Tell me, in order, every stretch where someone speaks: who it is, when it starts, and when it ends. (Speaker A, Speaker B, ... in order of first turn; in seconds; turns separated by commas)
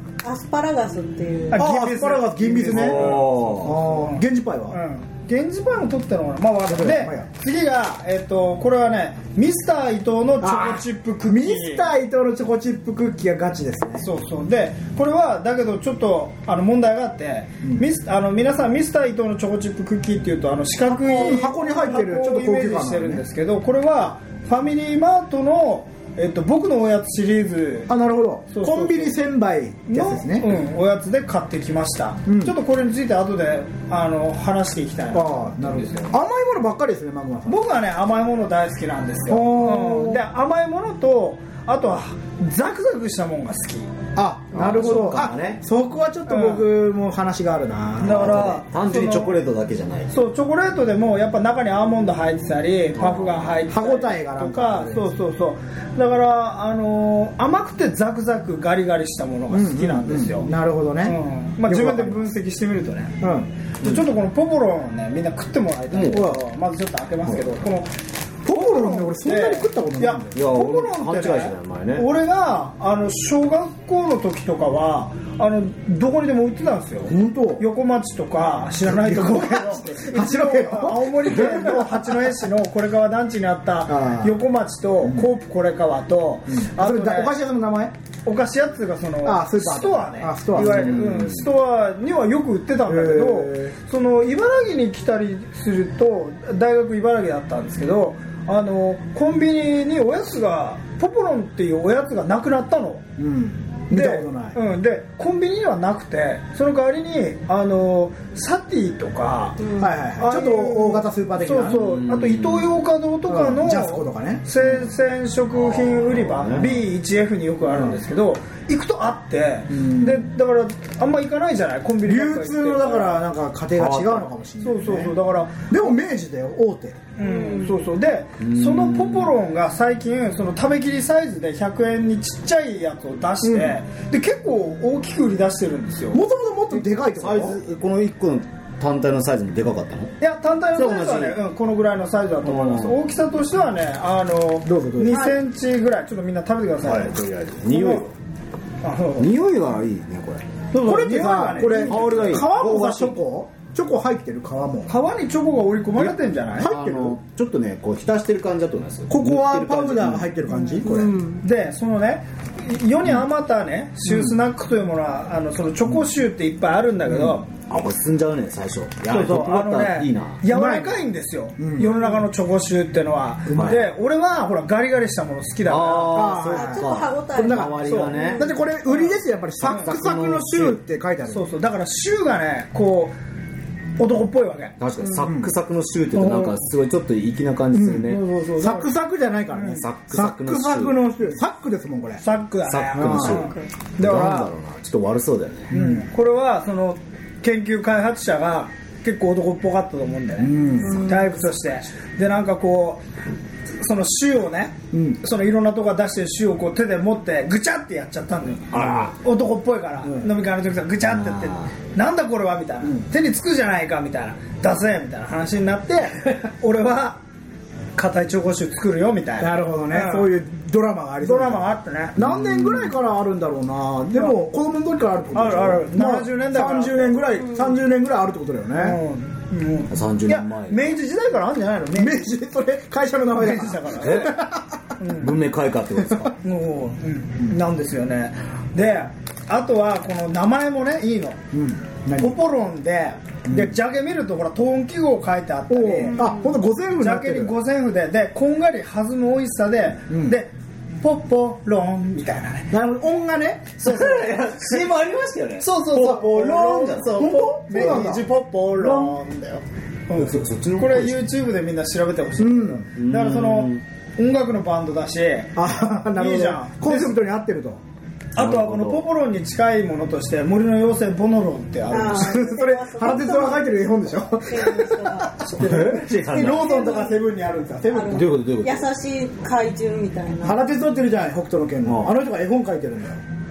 Speaker A: 0.2-1.7, Speaker B: 1.5-11.9, Speaker C: 1.5-4.8, Speaker D: 2.6-3.8, Speaker C: 6.7-7.3, Speaker C: 10.4-14.1, Speaker B: 14.0-27.9, Speaker C: 21.0-23.2, Speaker C: 27.9-30.6, Speaker B: 28.5-29.2, Speaker B: 29.9-36.1, Speaker C: 32.2-32.5, Speaker C: 35.1-37.6, Speaker B: 37.5-43.9, Speaker C: 39.3-40.2, Speaker C: 44.1-48.6, Speaker D: 44.5-45.6, Speaker B: 44.8-45.0, Speaker B: 46.3-46.7, Speaker B: 48.0-49.3, Speaker D: 48.1-50.1, Speaker B: 50.1-60.5, Speaker D: 52.9-53.5, Speaker C: 53.7-55.1, Speaker C: 59.5-62.3, Speaker B: 61.0-63.2, Speaker C: 63.2-63.5, Speaker B: 63.8-67.9, Speaker D: 65.9-66.3, Speaker C: 66.1-66.4, Speaker C: 68.4-70.4, Speaker B: 68.5-87.3, Speaker D: 70.3-72.1, Speaker C: 77.0-77.6, Speaker C: 78.8-82.4, Speaker C: 83.9-84.4, Speaker C: 85.0-85.3, Speaker C: 86.5-87.9, Speaker B: 88.2-103.0, Speaker C: 89.2-91.1, Speaker D: 90.5-91.5, Speaker C: 92.8-93.8, Speaker C: 103.2-104.6, Speaker B: 103.9-123.2, Speaker A: 109.6-109.9, Speaker C: 109.8-111.8, Speaker D: 111.7-112.8, Speaker C: 113.3-114.6, Speaker D: 115.5-116.8, Speaker C: 117.6-118.0, Speaker C: 119.7-120.2, Speaker C: 122.0-127.0, Speaker D: 123.8-124.3, Speaker B: 124.6-125.9, Speaker B: 127.2-136.2, Speaker A: 127.2-127.8, Speaker D: 128.4-129.3, Speaker C: 133.4-133.8, Speaker C: 136.1-137.6, Speaker D: 137.1-140.1, Speaker B: 140.2-148.0, Speaker D: 140.7-141.4, Speaker D: 142.4-143.0, Speaker C: 144.6-145.3, Speaker A: 145.1-145.4, Speaker D: 146.8-148.1, Speaker B: 148.8-149.3, Speaker D: 149.2-150.4, Speaker B: 150.7-152.4, Speaker C: 150.7-154.9, Speaker D: 151.7-153.2, Speaker B: 154.9-156.7, Speaker D: 155.9-160.3, Speaker C: 156.6-157.2, Speaker C: 159.1-161.2, Speaker B: 160.5-160.8, Speaker A: 160.8-161.4, Speaker B: 161.4-167.5, Speaker C: 164.0-164.4, Speaker D: 167.1-170.4, Speaker B: 169.1-176.4, Speaker C: 170.4-171.1, Speaker C: 171.6-172.1, Speaker C: 173.4-173.8, Speaker D: 173.5-173.8, Speaker D: 175.7-178.5, Speaker C: 176.1-181.4, Speaker A: 176.5-178.5, Speaker B: 177.8-179.9, Speaker D: 179.6-180.8, Speaker B: 181.3-183.1, Speaker B: 184.0-184.7, Speaker D: 184.8-188.2, Speaker A: 185.0-185.3, Speaker C: 185.2-185.5, Speaker C: 186.2-186.5, Speaker C: 187.7-192.2, Speaker B: 188.1-188.9, Speaker B: 189.5-189.8, Speaker D: 189.7-191.0, Speaker B: 192.2-194.4, Speaker D: 192.7-195.7, Speaker C: 192.9-194.5, Speaker C: 195.7-196.1, Speaker B: 195.7-203.0, Speaker C: 200.4-201.1, Speaker A: 200.8-201.4, Speaker B: 203.8-217.2, Speaker C: 204.9-205.2, Speaker D: 208.7-209.1, Speaker C: 208.8-209.1, Speaker C: 210.0-210.3, Speaker D: 211.1-211.7, Speaker B: 217.9-220.3, Speaker C: 219.4-229.0, Speaker B: 221.2-222.2, Speaker D: 222.2-222.9, Speaker B: 225.3-227.3, Speaker B: 228.7-232.2, Speaker D: 229.9-231.0, Speaker C: 231.9-234.8, Speaker B: 233.3-234.3, Speaker D: 234.0-234.4, Speaker B: 235.0-235.3, Speaker D: 235.2-236.3, Speaker B: 236.4-241.4, Speaker C: 241.5-242.3, Speaker B: 242.2-246.3, Speaker C: 243.4-243.8, Speaker C: 245.7-247.5, Speaker A: 246.2-246.5, Speaker B: 247.0-252.7, Speaker C: 250.1-250.4, Speaker C: 252.7-254.2, Speaker D: 253.8-258.0, Speaker B: 253.8-254.5, Speaker B: 255.6-265.6, Speaker C: 256.9-259.2, Speaker D: 260.1-261.2, Speaker C: 262.4-262.9, Speaker D: 262.9-263.8, Speaker C: 265.5-267.8, Speaker B: 266.1-267.2, Speaker B: 268.3-272.6, Speaker D: 268.4-269.0, Speaker A: 271.9-273.8, Speaker C: 271.9-278.4, Speaker A: 274.4-275.5, Speaker D: 275.5-276.8, Speaker B: 275.6-276.0, Speaker A: 276.3-277.2, Speaker A: 277.9-280.6, Speaker D: 278.1-278.9, Speaker C: 280.4-283.2, Speaker D: 281.8-282.1